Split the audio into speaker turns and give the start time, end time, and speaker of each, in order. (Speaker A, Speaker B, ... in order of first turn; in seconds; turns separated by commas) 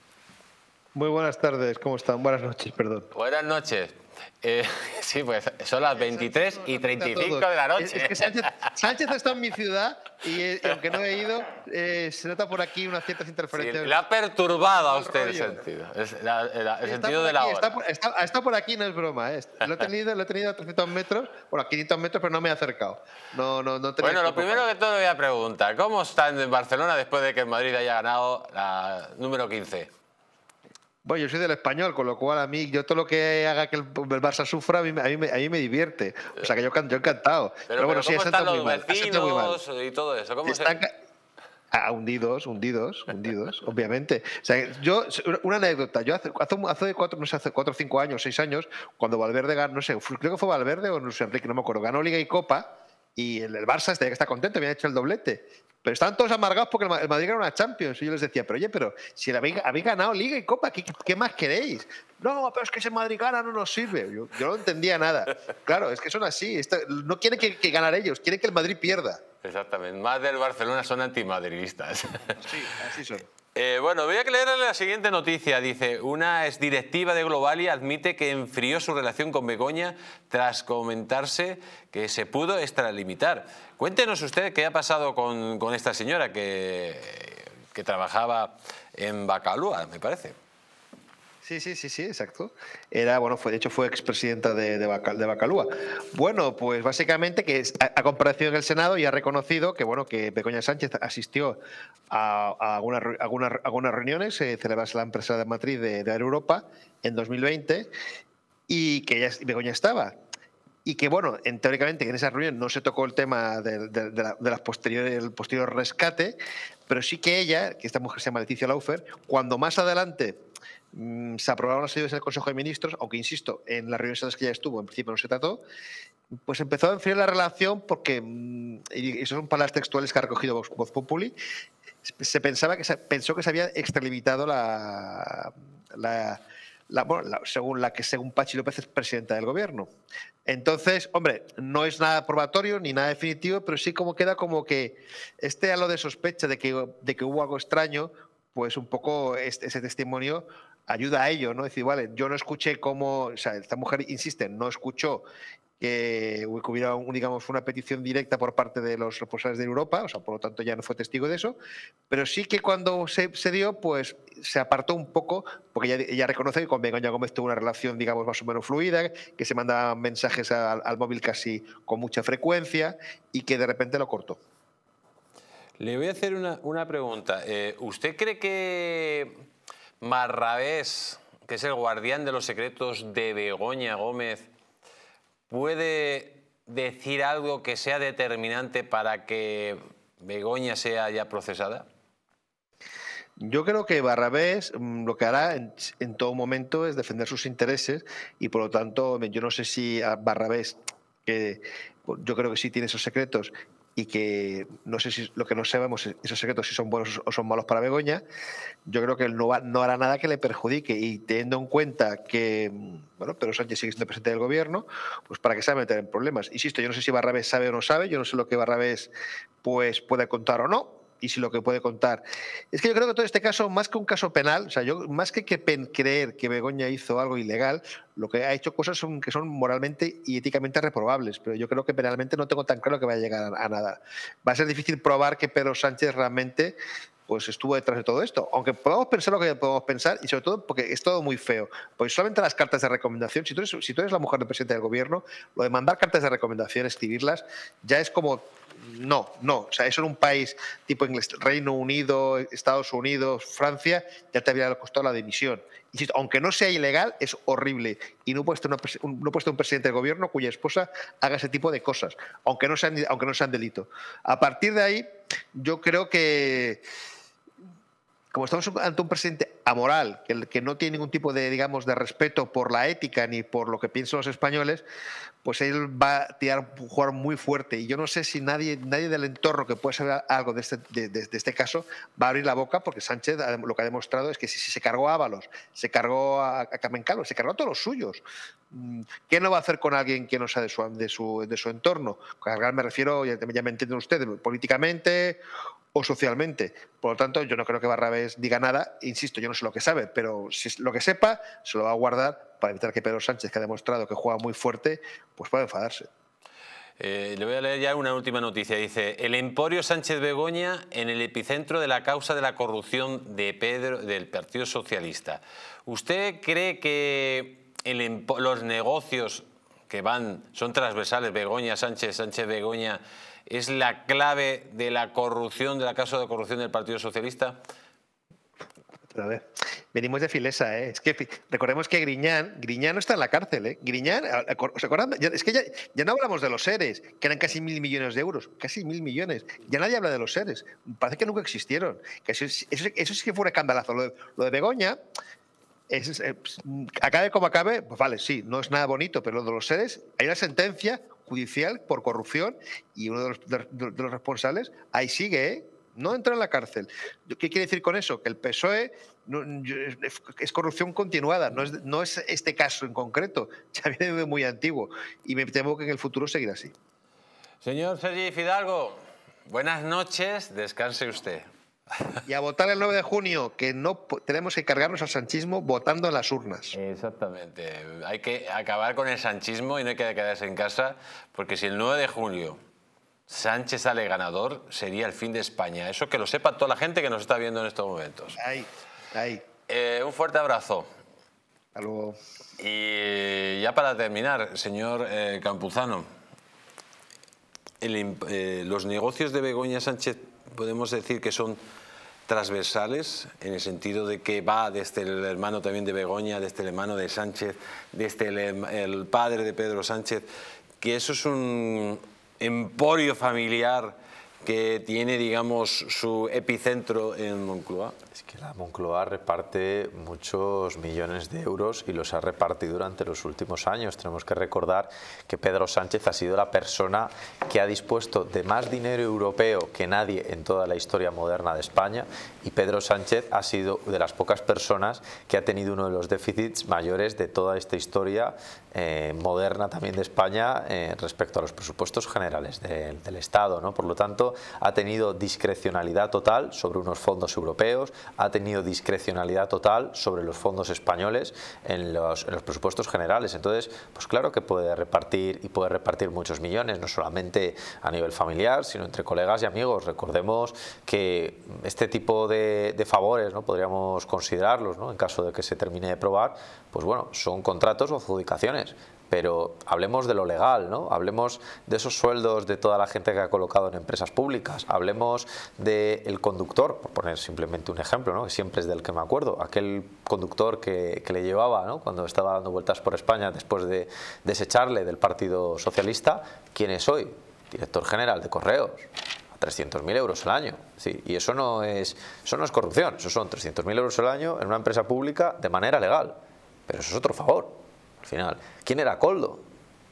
Speaker A: 0.9-3.1, Speaker B: 3.1-8.5, Speaker A: 5.9-13.9, Speaker B: 13.5-17.8, Speaker A: 14.7-15.6, Speaker A: 16.8-24.6, Speaker B: 24.0-29.9, Speaker A: 31.0-39.6, Speaker B: 37.7-40.8, Speaker A: 40.5-40.9, Speaker A: 41.7-69.2, Speaker B: 69.4-72.5, Speaker A: 72.5-73.2, Speaker B: 73.5-90.3, Speaker A: 91.4-101.6, Speaker A: 102.1-107.9, Speaker A: 108.7-110.2, Speaker A: 110.8-120.4, Speaker A: 120.9-125.6, Speaker A: 126.5-131.3, Speaker A: 132.0-139.9, Speaker A: 140.4-155.2, Speaker A: 155.8-161.6, Speaker A: 162.1-174.4, Speaker B: 175.8-179.3, Speaker B: 180.0-184.5, Speaker B: 185.5-191.9, Speaker A: 193.4-208.2, Speaker A: 208.8-219.1, Speaker A: 219.6-236.8, Speaker A: 237.3-266.8, Speaker A: 268.3-274.8, Speaker A: 275.4-295.4, Speaker A: 295.9-306.1, Speaker B: 307.0-327.6, Speaker A: 329.1-345.0, Speaker A: 345.9-366.7, Speaker B: 367.6-371.5, Speaker A: 372.2-376.7, Speaker B: 376.7-382.6, Speaker B: 383.3-388.4, Speaker A: 388.4-389.4, Speaker B: 389.7-390.9, Speaker A: 391.8-392.2, Speaker B: 392.6-396.1, Speaker B: 397.8-401.6, Speaker B: 402.3-410.2, Speaker B: 410.8-417.9, Speaker C: 418.1-499.4